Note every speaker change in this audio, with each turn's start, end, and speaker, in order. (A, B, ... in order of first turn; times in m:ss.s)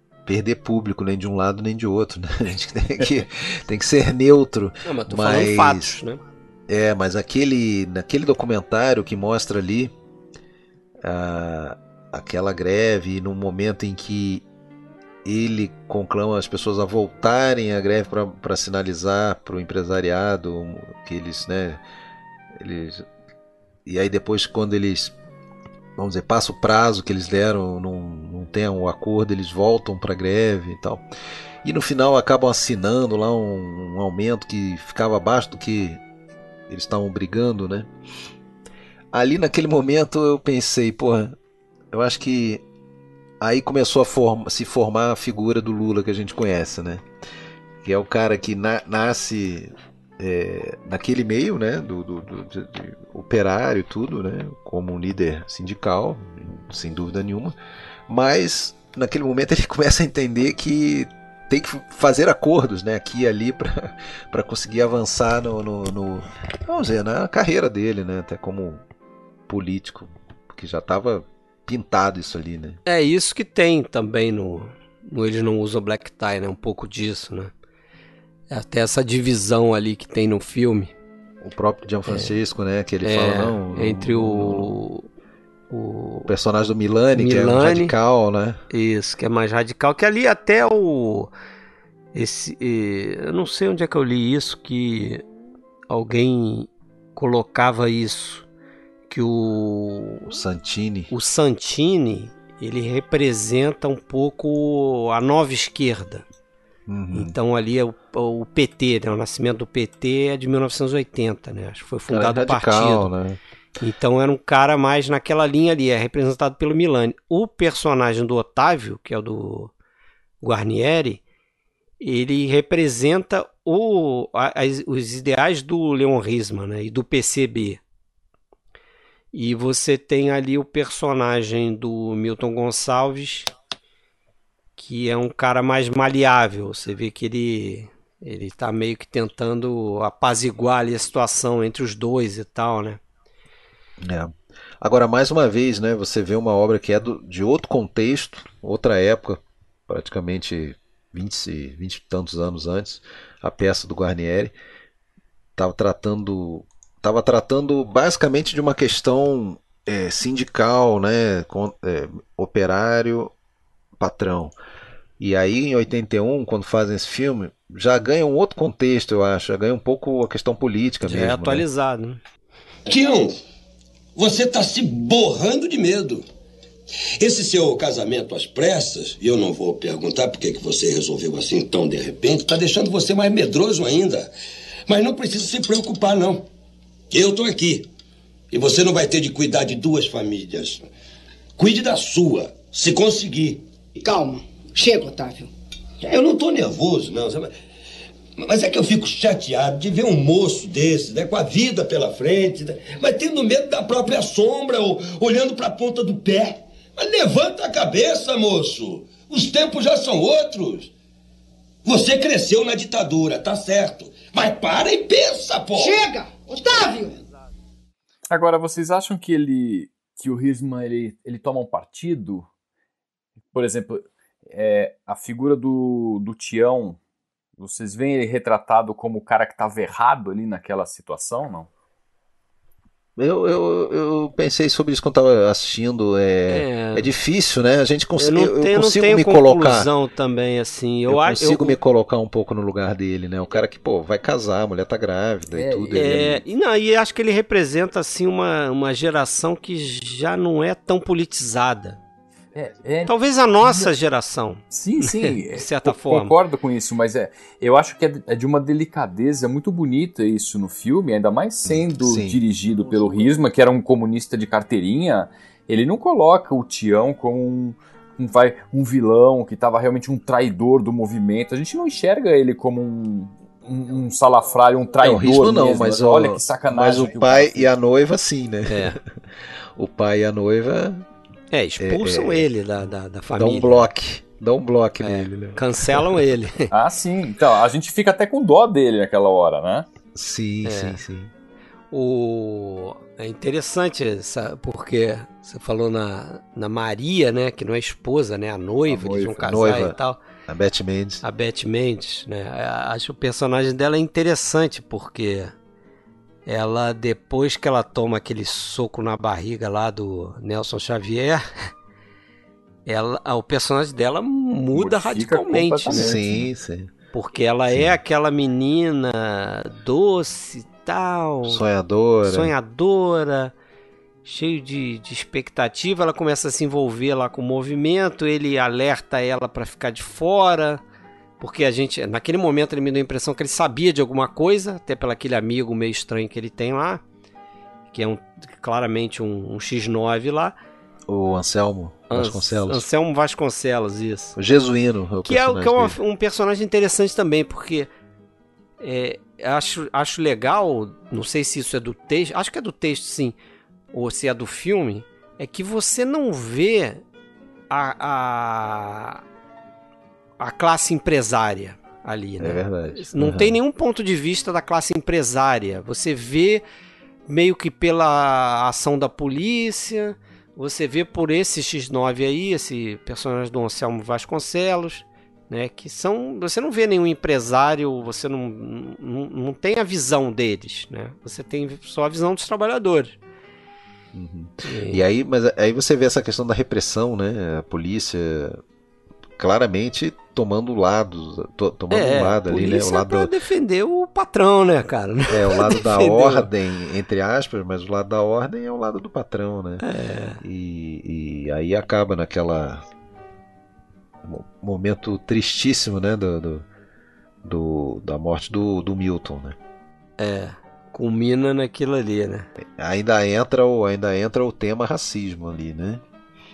0:00.3-0:06.0 A
0:04.9-0:06.2 B
0:06.7-0:09.9 A
0:11.0-0:14.4 A
0:15.2-0:21.8 A
0:22.5-0:23.1 A
0:23.9-0:25.1 A
0:26.0-0:31.0 A
0:31.6-0:36.0 A
0:36.7-0:37.9 A
0:39.1-0:41.4 A
0:41.9-0:42.6 A
0:43.4-0:47.0 A
0:47.8-0:57.6 A
0:58.1-1:08.8 A
1:09.5-1:12.8 A
1:12.9-1:17.5 B
1:18.5-1:20.9 B
1:21.4-1:24.8 A
1:22.1-1:22.3 B
1:23.0-1:25.1 B
1:25.7-1:26.3 B
1:26.3-1:28.6 A
1:27.1-1:28.0 B
1:28.7-1:31.3 B
1:32.1-1:35.2 B
1:35.9-1:38.5 B
1:39.1-1:40.3 B
1:40.3-1:41.1 A
1:41.1-1:46.2 B
1:46.9-1:47.4 A
1:47.1-1:53.1 B
1:52.1-1:53.4 A
1:53.8-1:59.7 B
2:00.4-2:01.2 B
2:02.0-2:07.8 B
2:09.3-2:13.5 B
2:14.8-2:23.0 B
2:24.0-2:34.6 A
2:35.6-2:43.3 A
2:44.0-2:44.6 A
2:45.2-2:51.6 A
2:51.0-2:52.2 B
2:52.9-2:53.4 C
2:54.2-2:56.2 C
2:57.2-3:04.3 C
3:04.9-3:06.4 C
3:07.1-3:07.9 C
3:08.5-3:10.9 C
3:11.6-3:13.6 C
3:14.0-3:15.5 D
3:16.0-3:17.5 C
3:18.4-3:30.9 C
3:31.8-3:36.0 C
3:35.8-3:37.2 D
3:38.3-3:42.5 E
3:43.5-3:47.0 E
3:47.6-3:51.7 E
3:53.2-3:59.9 A
3:56.5-3:57.1 B
3:58.2-4:01.8 B
4:01.1-4:06.4 A
4:05.5-4:06.1 E
4:06.0-4:12.0 B
4:12.6-4:13.9 E
4:13.1-4:14.6 B
4:14.7-4:37.7 E
4:15.2-4:16.4 B
4:21.7-4:22.4 A
4:35.0-4:39.0 A
4:38.7-4:39.0 B
4:39.8-4:41.1 A
4:41.5-4:43.9 B
4:41.8-4:42.5 A
4:43.4-4:46.2 A
4:45.0-4:46.7 B
4:46.7-4:49.9 E
4:50.2-4:51.3 A
4:50.6-4:51.0 B
4:51.9-5:00.2 B
4:58.9-4:59.8 E
4:59.4-5:00.0 A
5:00.5-5:01.2 A
5:01.2-5:05.5 B
5:06.5-5:11.4 B
5:12.9-5:16.2 B
5:14.8-5:16.4 E
5:15.9-5:16.9 A
5:17.1-5:21.6 B
5:17.7-5:18.0 A
5:21.4-5:22.5 A
5:22.2-5:23.5 B
5:24.2-5:30.8 B
5:31.4-5:37.0 B
5:37.9-5:40.5 B
5:41.1-5:42.9 A
5:42.1-5:44.4 B
5:44.4-5:46.0 A
5:45.2-5:47.9 B
5:48.8-5:53.4 B
5:53.9-5:57.0 B
5:57.7-5:59.2 B
6:00.4-6:06.6 B
6:02.4-6:03.6 A
6:07.3-6:23.2 B
6:24.1-6:28.6 A
6:24.7-6:25.0 B
6:29.4-6:33.3 A
6:31.9-6:36.5 B
6:35.3-6:39.8 A
6:39.8-6:40.4 B
6:40.4-6:42.8 A
6:44.2-6:46.7 A
6:47.4-6:49.6 A
6:50.2-6:52.5 B
6:52.6-6:56.0 A